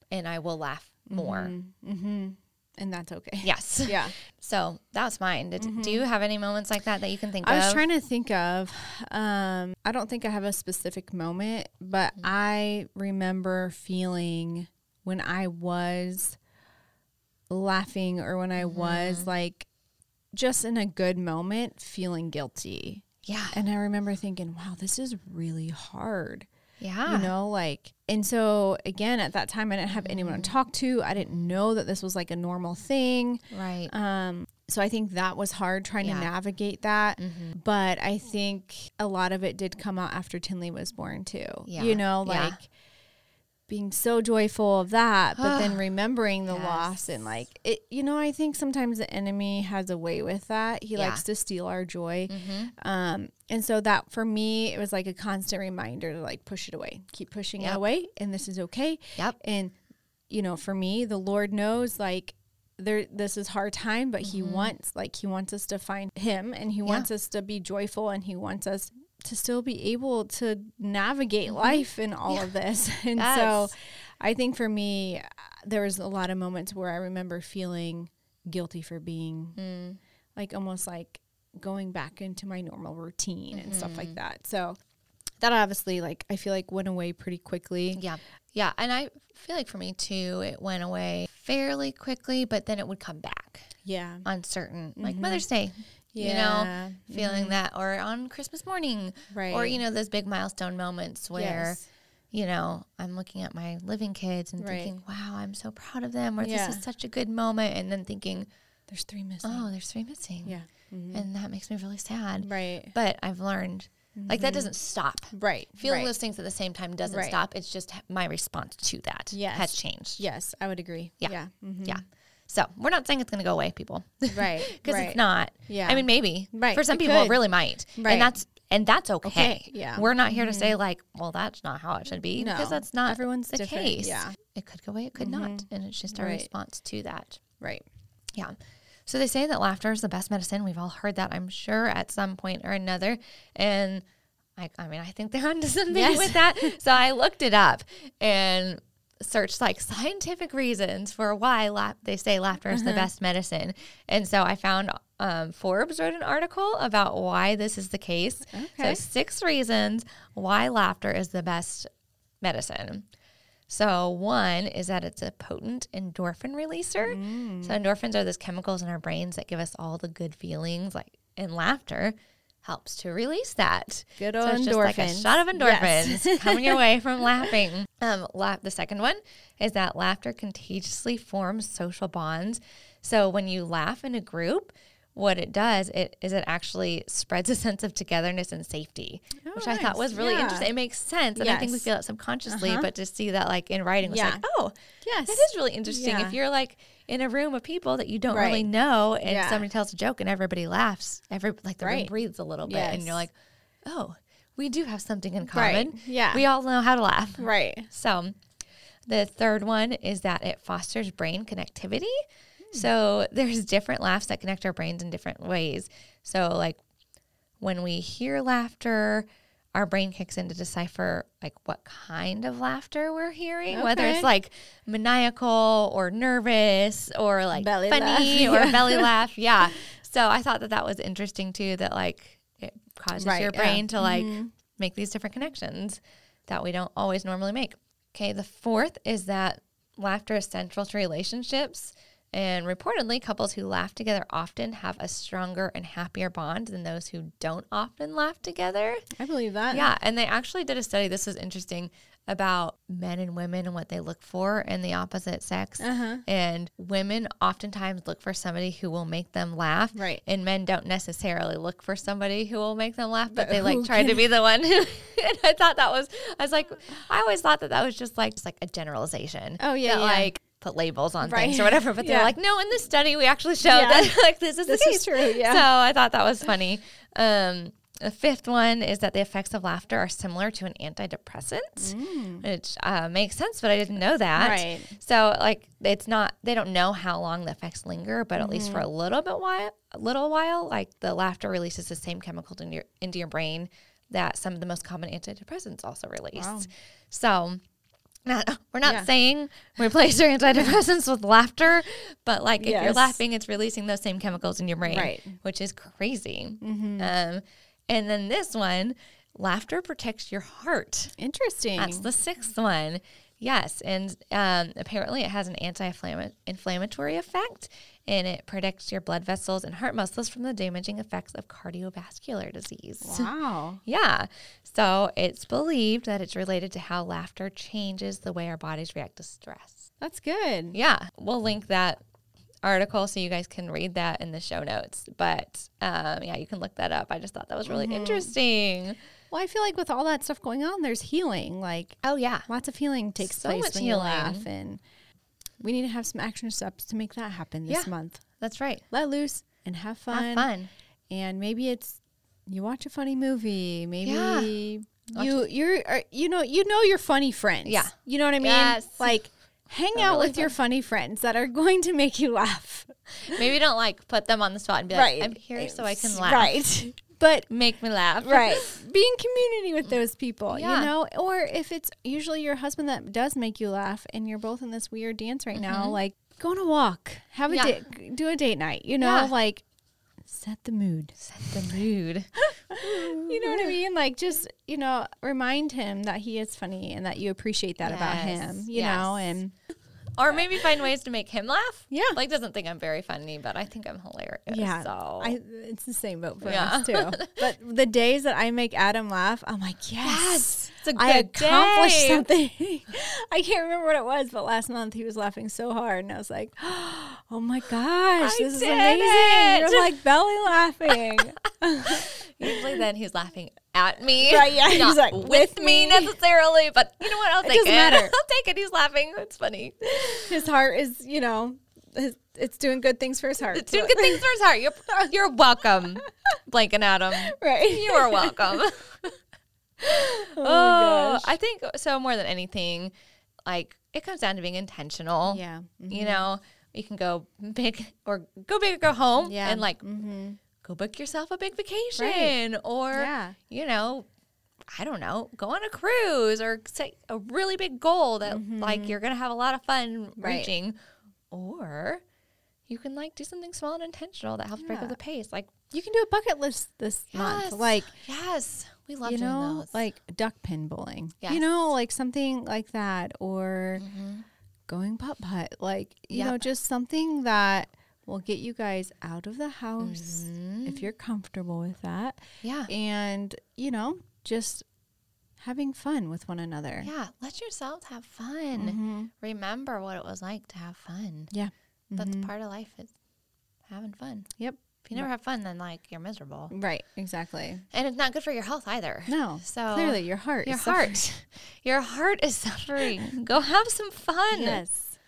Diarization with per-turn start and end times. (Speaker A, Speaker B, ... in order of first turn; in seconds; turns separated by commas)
Speaker A: 0.1-1.5, Speaker B: 1.1-4.1, Speaker A: 3.4-7.8, Speaker B: 5.6-6.0, Speaker B: 7.4-16.4, Speaker B: 17.5-19.7, Speaker A: 18.6-19.3, Speaker B: 20.3-26.5, Speaker A: 23.2-23.6, Speaker A: 26.8-27.3, Speaker B: 27.1-42.7, Speaker A: 29.9-30.5, Speaker A: 33.5-33.9, Speaker A: 36.0-36.3, Speaker A: 37.2-37.5, Speaker A: 41.7-42.6, Speaker B: 43.7-59.8, Speaker A: 45.4-45.8, Speaker A: 46.5-47.1, Speaker A: 51.0-51.2, Speaker A: 52.3-52.7, Speaker B: 60.3-79.6, Speaker A: 64.2-64.7, Speaker A: 71.5-72.5, Speaker A: 73.2-73.7, Speaker A: 79.6-80.0, Speaker B: 80.4-84.8, Speaker A: 83.5-84.2, Speaker B: 85.4-88.0, Speaker A: 88.0-93.7, Speaker B: 93.8-94.3, Speaker A: 94.2-101.8, Speaker B: 95.0-95.5, Speaker B: 96.1-97.6, Speaker B: 99.3-99.8, Speaker B: 101.3-101.8, Speaker A: 102.3-108.5, Speaker B: 104.6-105.0, Speaker B: 106.4-106.8, Speaker B: 108.9-109.7, Speaker A: 109.4-110.5, Speaker B: 110.4-111.3, Speaker A: 111.1-120.2, Speaker B: 112.4-113.0, Speaker B: 114.2-114.7, Speaker B: 115.3-116.1, Speaker B: 117.1-117.4, Speaker B: 119.3-122.0, Speaker A: 121.8-137.4, Speaker B: 124.3-127.4, Speaker B: 128.0-128.3, Speaker B: 129.2-130.8, Speaker B: 132.4-134.4, Speaker B: 135.2-136.5, Speaker B: 137.6-137.8, Speaker A: 138.3-144.1, Speaker A: 144.6-161.9, Speaker B: 145.9-146.8, Speaker B: 152.7-153.1, Speaker B: 158.5-159.0, Speaker A: 162.4-163.1, Speaker A: 163.7-203.3, Speaker B: 167.1-167.8, Speaker B: 174.2-176.8, Speaker B: 189.4-190.7, Speaker B: 191.4-191.9, Speaker B: 192.5-192.9, Speaker B: 194.0-194.4, Speaker B: 195.0-196.4, Speaker B: 198.3-198.7, Speaker B: 199.2-199.7, Speaker B: 201.8-202.1, Speaker B: 202.7-203.3, Speaker A: 203.8-208.4, Speaker B: 205.5-206.4, Speaker B: 207.4-207.9, Speaker A: 209.1-212.2, Speaker A: 212.7-216.8, Speaker A: 217.6-249.1, Speaker B: 223.7-224.3, Speaker B: 227.6-229.1, Speaker B: 233.2-234.5, Speaker B: 249.2-249.9, Speaker A: 249.7-297.6, Speaker B: 255.8-256.2, Speaker B: 259.9-260.2, Speaker B: 263.3-264.3, Speaker B: 269.6-270.3, Speaker B: 271.2-272.4, Speaker B: 273.6-274.1, Speaker B: 274.6-275.7, Speaker B: 281.8-282.5, Speaker B: 284.4-284.9, Speaker B: 288.4-288.9, Speaker B: 296.4-296.7, Speaker A: 298.2-311.1, Speaker B: 302.6-303.2, Speaker B: 304.9-305.4, Speaker B: 306.6-307.1, Speaker B: 311.2-312.1, Speaker A: 311.8-323.3, Speaker B: 323.0-323.8, Speaker A: 323.9-329.9, Speaker B: 330.0-330.8, Speaker A: 330.7-332.0, Speaker A: 332.6-339.0, Speaker B: 337.6-338.3, Speaker B: 339.3-344.8, Speaker A: 342.0-342.5, Speaker A: 343.2-344.5, Speaker B: 345.6-348.2, Speaker A: 347.7-348.8, Speaker B: 348.9-350.5, Speaker A: 350.1-350.7, Speaker B: 351.1-363.4, Speaker A: 354.0-354.5, Speaker A: 355.1-355.5, Speaker A: 357.6-359.1, Speaker A: 359.9-360.6, Speaker A: 363.2-366.5, Speaker B: 364.9-367.5, Speaker A: 367.5-368.8, Speaker B: 368.2-379.6, Speaker A: 370.5-370.9, Speaker A: 375.6-376.0, Speaker A: 377.5-377.8, Speaker A: 379.0-379.3, Speaker B: 380.2-381.5, Speaker A: 381.2-383.8, Speaker B: 382.4-389.5, Speaker A: 387.8-389.4, Speaker A: 390.2-395.4, Speaker B: 391.9-392.2, Speaker B: 394.5-412.8, Speaker A: 396.4-397.5, Speaker A: 400.0-402.3, Speaker A: 408.2-410.0, Speaker A: 410.9-411.2, Speaker A: 411.8-420.4, Speaker B: 414.2-416.2, Speaker B: 417.3-418.2, Speaker B: 420.0-424.3, Speaker A: 423.5-429.1, Speaker B: 427.1-428.6, Speaker A: 429.8-432.9, Speaker B: 429.8-431.3, Speaker A: 433.5-439.8, Speaker B: 435.3-436.3, Speaker B: 439.2-440.4, Speaker A: 440.6-444.1, Speaker B: 442.0-442.4, Speaker B: 442.9-443.4, Speaker A: 444.7-450.8, Speaker B: 448.3-449.0, Speaker B: 450.2-450.5, Speaker A: 451.3-452.0, Speaker A: 452.7-455.5, Speaker B: 454.6-455.0, Speaker B: 455.7-457.9, Speaker A: 457.1-459.8, Speaker B: 459.1-463.9, Speaker A: 461.2-461.5, Speaker A: 463.8-464.3, Speaker B: 464.7-474.6, Speaker A: 466.1-466.5, Speaker A: 469.8-470.9, Speaker A: 472.4-472.7, Speaker B: 475.4-476.9, Speaker A: 476.8-481.3, Speaker B: 478.6-479.1, Speaker B: 481.3-482.3, Speaker A: 482.0-482.9, Speaker A: 483.7-484.3, Speaker B: 484.4-485.1, Speaker A: 484.9-486.5, Speaker B: 486.5-487.6, Speaker A: 487.7-494.6, Speaker B: 489.1-491.1, Speaker B: 494.3-495.0